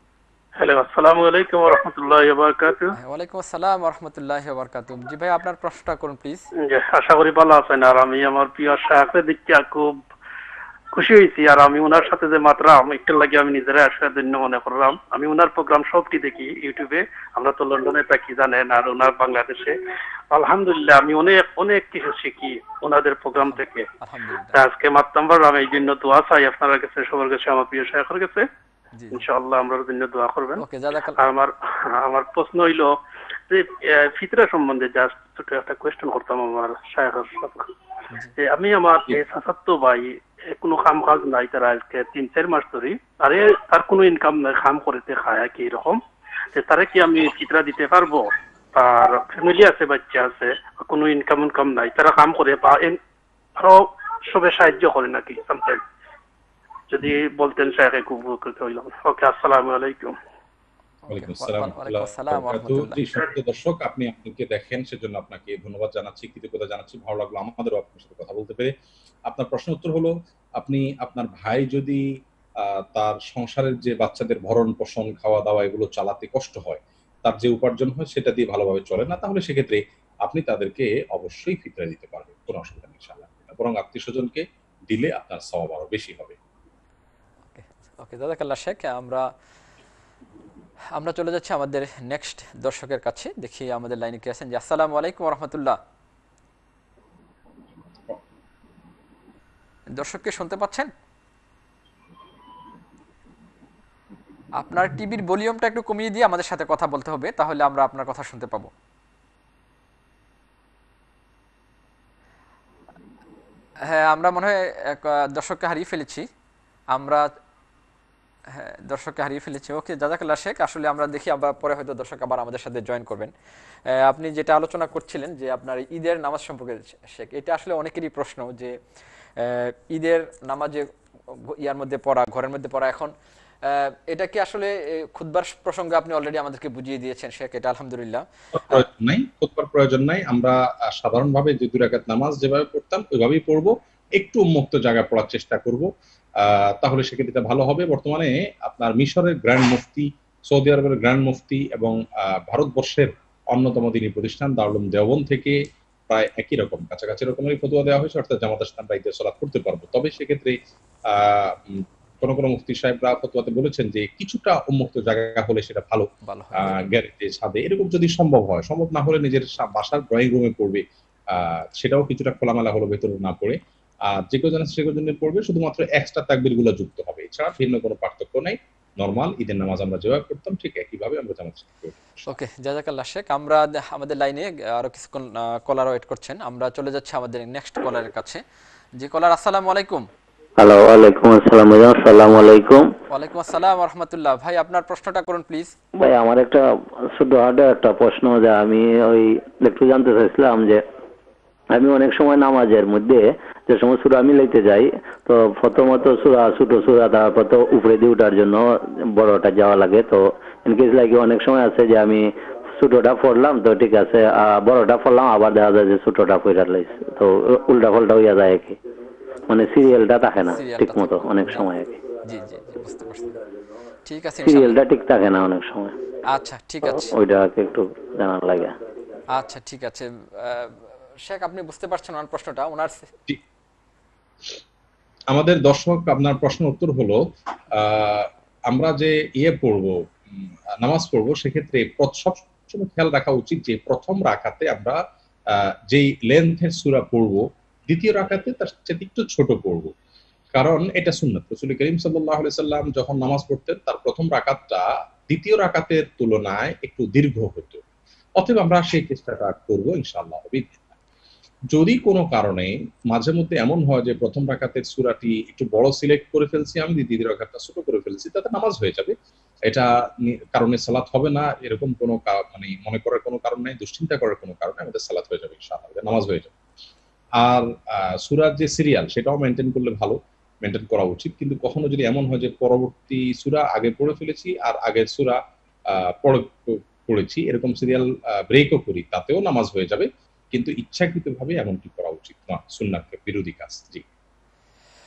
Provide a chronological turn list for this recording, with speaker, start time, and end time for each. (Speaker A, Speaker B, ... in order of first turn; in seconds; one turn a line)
Speaker A: 0.6-2.9
Speaker B: 3.0-6.4
Speaker A: 6.6-10.0
Speaker A: 10.9-19.8
Speaker A: 20.3-23.9
Speaker B: 23.3-24.6
Speaker A: 24.5-28.5
Speaker B: 28.9-29.2
Speaker A: 29.1-30.6
Speaker B: 30.6-31.2
Speaker A: 31.2-33.0
Speaker A: 33.5-37.7
Speaker A: 38.4-46.0
Speaker A: 46.5-53.0
Speaker A: 53.6-55.8
Speaker A: 56.9-60.1
Speaker B: 61.0-63.0
Speaker C: 61.1-68.7
Speaker C: 69.3-72.0
Speaker C: 72.6-86.4
Speaker B: 87.5-89.3
Speaker B: 90.9-95.8
Speaker B: 99.9-100.9
Speaker B: 104.6-108.7
Speaker B: 113.8-116.2
Speaker B: 116.9-117.3
Speaker B: 118.5-123.3
Speaker B: 123.9-128.7
Speaker B: 129.4-133.1
Speaker B: 133.6-138.8
Speaker C: 138.5-160.6
Speaker C: 161.1-182.3
Speaker B: 166.2-166.8
Speaker B: 182.3-188.4
Speaker B: 189.0-190.1
Speaker D: 190.6-192.9
Speaker B: 193.1-195.7
Speaker D: 196.0-200.8
Speaker D: 201.7-218.8
Speaker D: 219.5-222.0
Speaker B: 220.4-221.7
Speaker B: 222.2-223.3
Speaker B: 224.0-224.8
Speaker D: 224.4-226.0
Speaker B: 226.3-227.1
Speaker D: 226.8-228.7
Speaker B: 229.3-233.1
Speaker C: 235.3-237.2
Speaker C: 237.7-240.0
Speaker C: 240.8-245.0
Speaker C: 245.5-249.9
Speaker C: 250.5-257.8
Speaker C: 258.4-260.8
Speaker C: 261.7-269.1
Speaker C: 269.7-276.5
Speaker C: 277.4-294.0